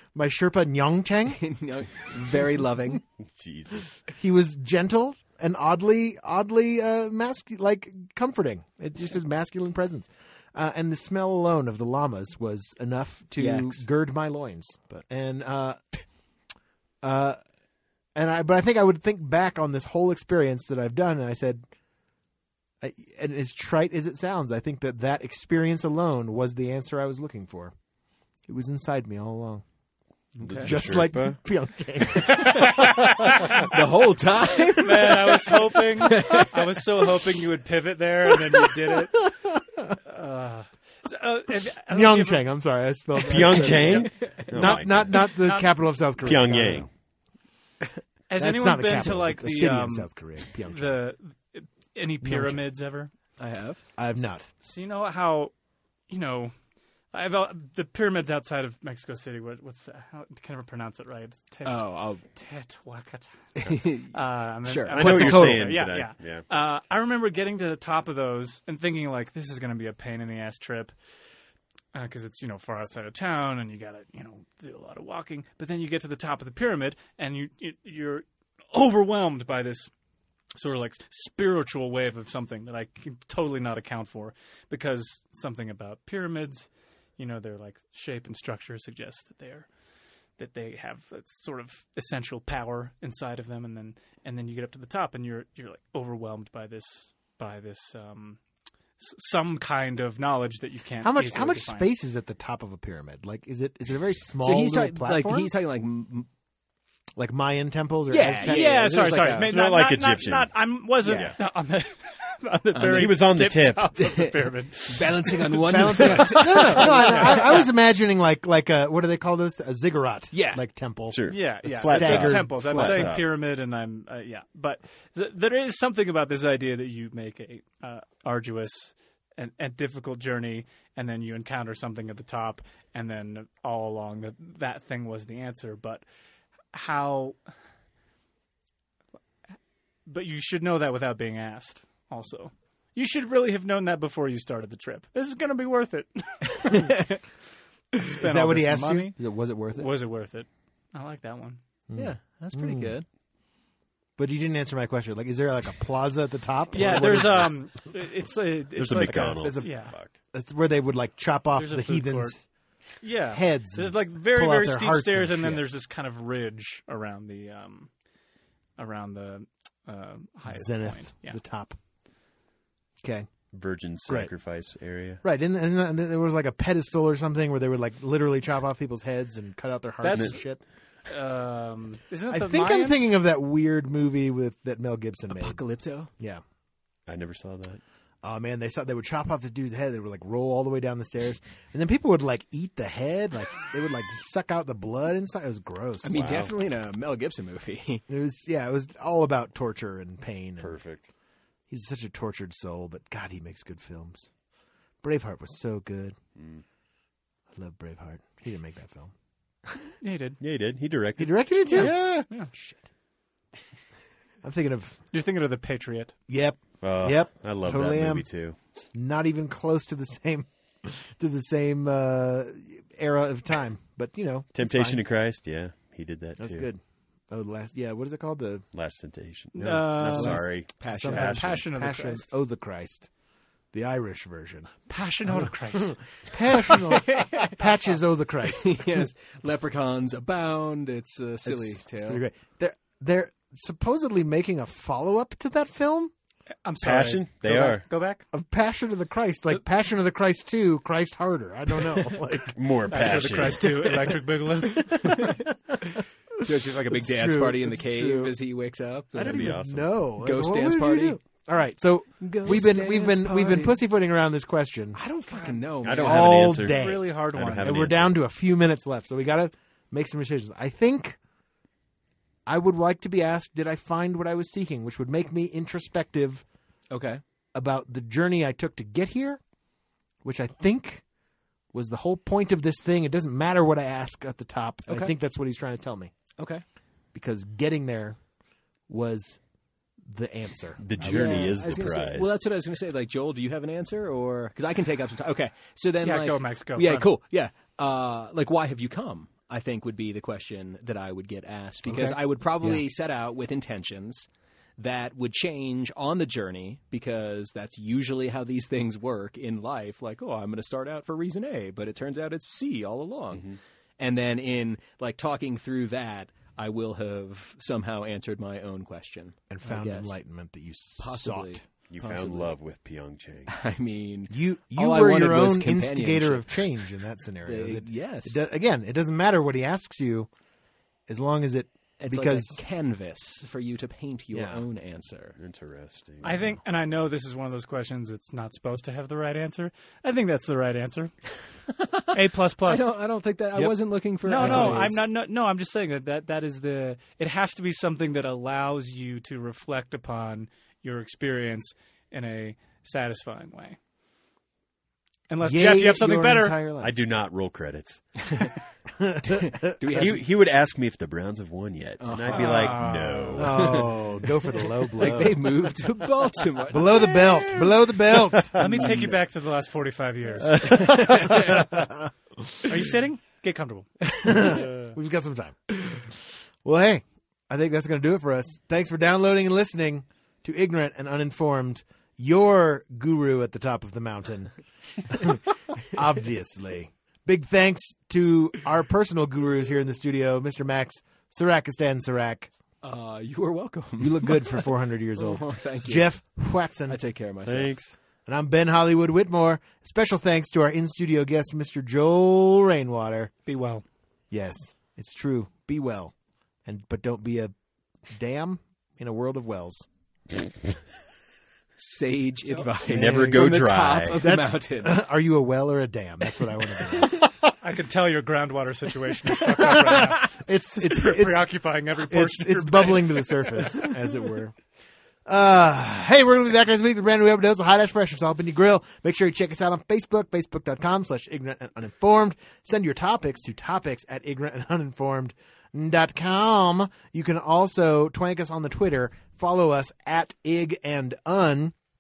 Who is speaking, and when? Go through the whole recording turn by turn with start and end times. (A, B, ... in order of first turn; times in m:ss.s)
0:00.1-0:01.4 A
0:01.3-0:03.0 B
0:03.2-0:03.9 C
0:04.1-0:16.0 A
0:13.4-0:13.8 B
0:17.0-0:17.4 A
0:18.2-0:21.6 A
0:22.8-0:27.7 A
0:28.5-0:29.6 A
0:30.4-0:30.8 B
0:30.4-0:31.4 C
0:30.6-0:32.7 A
0:32.0-0:32.3 C
0:32.3-0:33.7 D
0:33.6-0:36.5 B
0:34.8-0:39.3 D
0:39.2-0:40.0 A
0:40.0-0:42.5 D
0:41.9-0:46.9 A
0:43.2-0:45.3 C
0:43.5-0:43.8 D
0:43.5-0:44.8 B
0:45.3-0:46.4 D
0:46.2-0:46.9 C
0:48.3-0:53.1 D
0:48.4-0:50.9 A
0:52.2-0:52.6 A
0:53.4-0:53.8 B
0:54.0-0:54.5 A
0:54.6-0:55.5 D
0:56.1-0:56.5 D
0:57.1-1:03.3 D
1:01.6-1:02.2 B
1:03.6-1:05.1 B
1:04.1-1:10.9 D
1:05.0-1:05.8 A
1:05.0-1:06.4 C
1:11.9-1:19.9 D
1:20.6-1:26.7 D
1:27.2-1:29.7 D
1:30.4-1:38.4 D
1:39.0-1:41.9 D
1:41.0-1:45.5 A
1:44.4-1:46.3 B
1:47.2-1:48.9 A
1:48.1-1:49.6 B
1:48.3-1:57.7 D
1:49.4-1:50.5 C
1:51.0-1:51.4 B
1:51.0-1:51.4 C
1:52.8-1:53.9 C
1:54.0-1:57.6 B
1:55.6-2:03.1 A
2:00.3-2:00.6 B
2:01.1-2:03.3 C
2:01.3-2:16.0 D
2:16.7-2:17.4 D
2:20.1-2:27.2 D
2:27.9-2:29.2 D
2:28.2-2:29.9 A
2:29.7-2:31.6 D
2:31.9-2:32.9 A
2:32.0-2:33.1 B
2:34.2-2:37.6 A
2:36.7-2:40.0 D
2:38.8-2:40.1 C
2:38.9-2:39.8 A
2:40.3-2:42.4 A
2:41.6-2:42.4 D
2:43.0-2:47.9 D
2:43.3-2:45.7 A
2:48.8-2:51.4 D
2:50.5-2:51.8 A
2:53.0-2:53.3 A
2:53.5-2:55.2 C
2:55.2-3:00.6 A
3:00.0-3:00.4 D
3:00.1-3:00.4 C
3:01.1-3:03.1 D
3:02.3-3:05.6 A
3:05.3-3:06.1 B
3:07.1-3:07.8 C
3:08.2-3:16.3 A
3:16.0-3:18.0 B
3:16.1-3:16.5 C
3:18.1-3:20.8 A
3:20.6-3:21.1 C
3:21.7-3:24.3 A
3:25.0-3:26.2 A
3:26.4-3:26.6 C
3:27.6-3:29.1 A
3:30.0-3:30.4 D
3:30.4-3:32.3 C
3:31.2-3:32.0 A
3:31.7-3:32.5 D
3:34.4-3:35.0 A
3:35.1-3:36.2 D
3:36.3-3:38.3 A
3:36.8-3:38.6 C
3:38.9-3:45.0 A
3:44.6-3:46.7 C
3:46.4-3:48.6 A
3:48.7-3:51.6 C
3:49.5-3:52.3 D
3:50.1-3:51.5 B
3:50.9-3:53.1 A
3:53.7-3:54.7 A
3:54.9-3:57.5 D
3:56.2-3:58.8 A
3:57.1-3:57.5 B
3:58.5-4:02.2 B
4:01.4-4:06.1 A
4:06.6-4:08.2 D
4:06.8-4:07.9 C
4:08.3-4:13.7 A
4:12.5-4:13.8 C
4:12.9-4:15.3 D
4:14.7-4:18.4 A
4:15.0-4:15.4 B
4:16.4-4:19.6 B
4:19.2-4:25.0 A
4:19.2-4:19.9 C
4:20.2-4:21.2 B
4:22.2-4:23.8 B
4:25.0-4:26.5 B
4:25.3-4:25.6 D
4:25.8-4:28.2 C
4:26.0-4:31.2 A
4:26.2-4:27.9 D
4:32.5-4:36.4 A
4:36.9-4:37.2 B
4:37.6-4:39.4 A
4:40.2-4:41.0 A
4:41.7-4:46.1 A
4:44.9-4:45.1 B
4:46.4-4:46.6 B
4:47.1-4:48.2 A
4:48.9-4:49.4 A
4:50.0-4:51.5 A
4:50.8-4:52.4 C
4:51.0-5:20.2 B
4:56.0-4:57.1 D
5:01.9-5:02.8 A
5:13.3-5:13.6 C
5:19.5-5:21.6 A
5:21.0-5:22.5 B
5:21.9-5:23.6 C
5:23.5-5:26.7 B
5:24.3-5:30.3 A
5:27.4-5:28.5 B
5:31.1-5:32.6 A
5:32.0-5:35.4 B
5:34.3-5:34.6 A
5:35.4-5:36.4 C
5:36.2-5:41.1 D
5:41.8-5:45.0 B
5:42.1-5:42.9 D
5:44.3-5:53.8 D
5:44.3-5:45.0 A
5:55.3-5:56.6 D
5:55.4-5:56.9 A
5:56.8-5:58.5 C
5:58.9-6:00.0 A
5:59.3-6:00.2 B
5:59.9-6:03.9 C
6:02.0-6:04.0 B
6:02.3-6:03.5 D
6:03.4-6:05.5 A
6:04.9-6:08.1 B
6:05.0-6:05.3 C
6:06.7-6:08.8 A
6:08.6-6:11.1 D
6:10.6-6:11.0 C
6:10.8-6:11.7 B
6:11.1-6:12.6 A
6:12.6-6:13.9 D
6:14.1-6:24.5 A
6:25.0-6:32.5 A
6:32.8-6:36.2 B
6:34.0-6:37.0 A
6:36.9-6:37.8 B
6:37.5-6:38.0 C
6:38.3-6:43.3 A
6:43.5-6:43.8 D
6:44.3-6:46.1 A
6:46.7-6:47.5 A
6:48.1-6:49.9 A
6:51.8-6:55.0 B
6:52.5-6:52.8 D
6:52.9-6:53.6 A
6:52.9-6:54.2 C
6:54.2-6:57.3 A
6:57.6-7:03.8 D
6:59.6-7:01.5 A
7:02.1-7:04.6 A
7:05.3-7:21.7 A